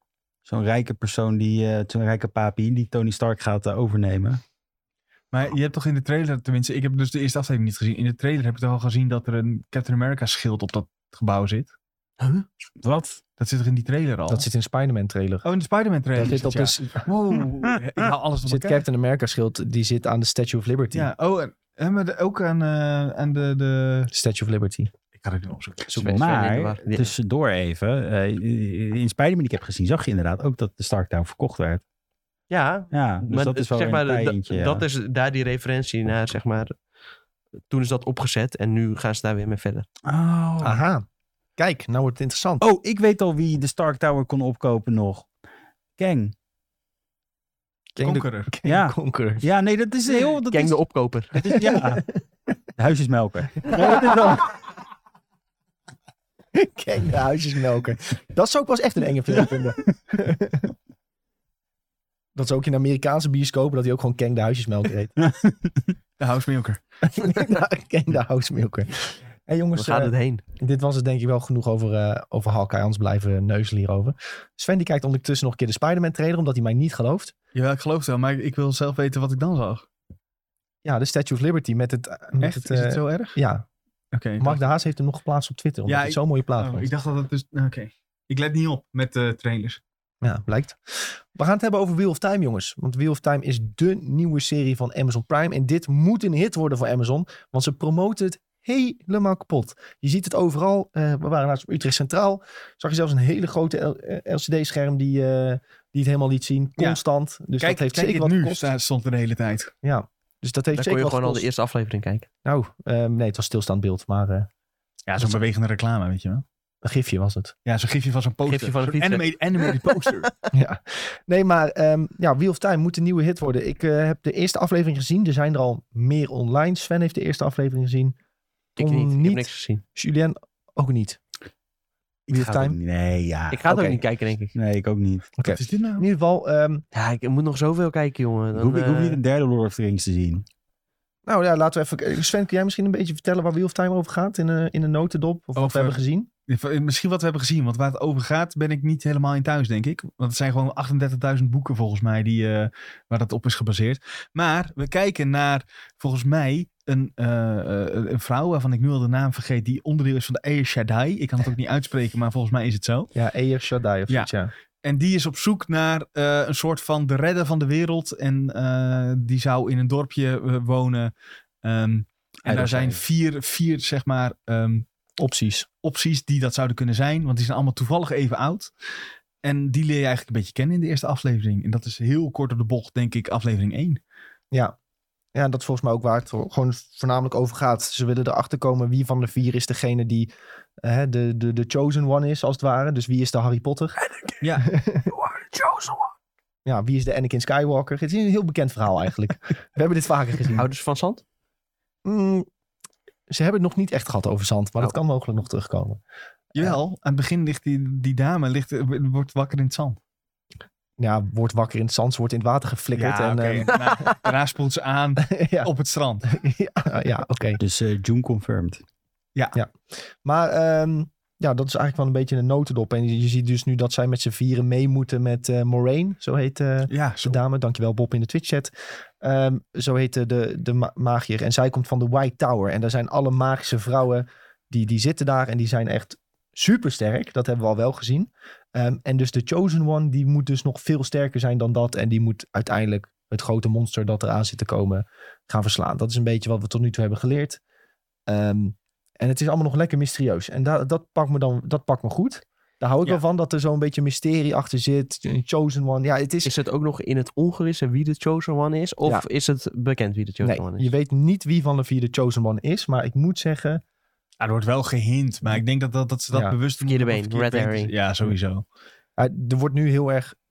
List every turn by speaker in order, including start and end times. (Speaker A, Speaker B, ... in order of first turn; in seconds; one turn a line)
Speaker A: 0.5-4.4
Speaker B: 5.3-11.7
Speaker A: 12.8-13.2
Speaker B: 13.4-14.5
Speaker C: 14.3-15.4
Speaker B: 15.4-18.9
Speaker C: 16.1-17.1
Speaker C: 18.4-21.1
Speaker B: 20.9-24.1
Speaker C: 24.1-24.9
Speaker B: 25.1-25.9
Speaker A: 25.9-31.8
Speaker D: 25.9-27.1
Speaker D: 32.5-36.8
Speaker A: 32.9-34.9
Speaker D: 37.7-39.9
Speaker A: 40.0-40.8
Speaker C: 40.6-41.0
Speaker C: 41.6-42.6
Speaker A: 42.6-45.3
Speaker A: 46.0-46.3
Speaker C: 48.0-49.5
Speaker B: 48.0-48.5
Speaker A: 48.6-50.8
Speaker D: 50.5-51.4
Speaker A: 51.3-52.0
Speaker C: 51.5-52.0
Speaker A: 52.8-54.5
Speaker C: 53.6-54.5
Speaker C: 56.5-60.7
Speaker C: 62.4-65.1
Speaker A: 65.4-65.8
Speaker B: 66.2-66.8
Speaker C: 67.0-77.3
Speaker D: 69.8-70.4
Speaker B: 77.5-79.9
Speaker C: 80.8-83.7
Speaker B: 82.4-83.4
Speaker B: 84.1-84.6
Speaker C: 84.4-86.9
Speaker B: 85.9-89.8
Speaker C: 90.2-108.7
Speaker B: 107.6-109.7
Speaker C: 109.8-111.5
Speaker D: 110.7-112.3
Speaker C: 112.5-114.5
Speaker B: 115.1-116.4
Speaker C: 116.8-117.5
Speaker B: 117.7-120.3
Speaker D: 118.5-119.3
Speaker C: 120.5-128.2
Speaker C: 128.8-131.2
Speaker D: 128.8-129.8
Speaker C: 132.3-132.8
Speaker A: 132.3-135.3
Speaker D: 133.5-134.6
Speaker C: 135.4-136.8
Speaker B: 135.5-136.1
Speaker D: 136.9-139.2
Speaker A: 138.6-140.5
Speaker C: 141.3-146.3
Speaker B: 145.6-163.1
Speaker C: 163.2-164.5
Speaker B: 164.8-171.1
Speaker B: 171.6-174.9
Speaker A: 172.5-173.0
Speaker C: 175.2-175.7
Speaker B: 175.8-178.7
Speaker B: 179.4-184.0
Speaker C: 185.3-190.3
Speaker C: 190.8-194.0
Speaker B: 194.4-194.7
Speaker C: 194.6-195.1
Speaker D: 195.1-196.1
Speaker C: 196.7-200.7
Speaker D: 200.5-201.2
Speaker C: 202.1-202.5
Speaker C: 203.3-206.0
Speaker B: 206.6-210.0
Speaker C: 211.0-214.1
Speaker B: 212.9-216.3
Speaker C: 215.2-215.7
Speaker C: 216.3-217.6
Speaker A: 217.6-218.8
Speaker C: 219.6-247.6
Speaker B: 226.9-227.4
Speaker C: 248.3-256.5
Speaker D: 256.4-260.9
Speaker C: 260.4-263.8
Speaker B: 264.4-268.6
Speaker C: 266.3-266.6
Speaker D: 266.9-267.9
Speaker C: 269.2-270.4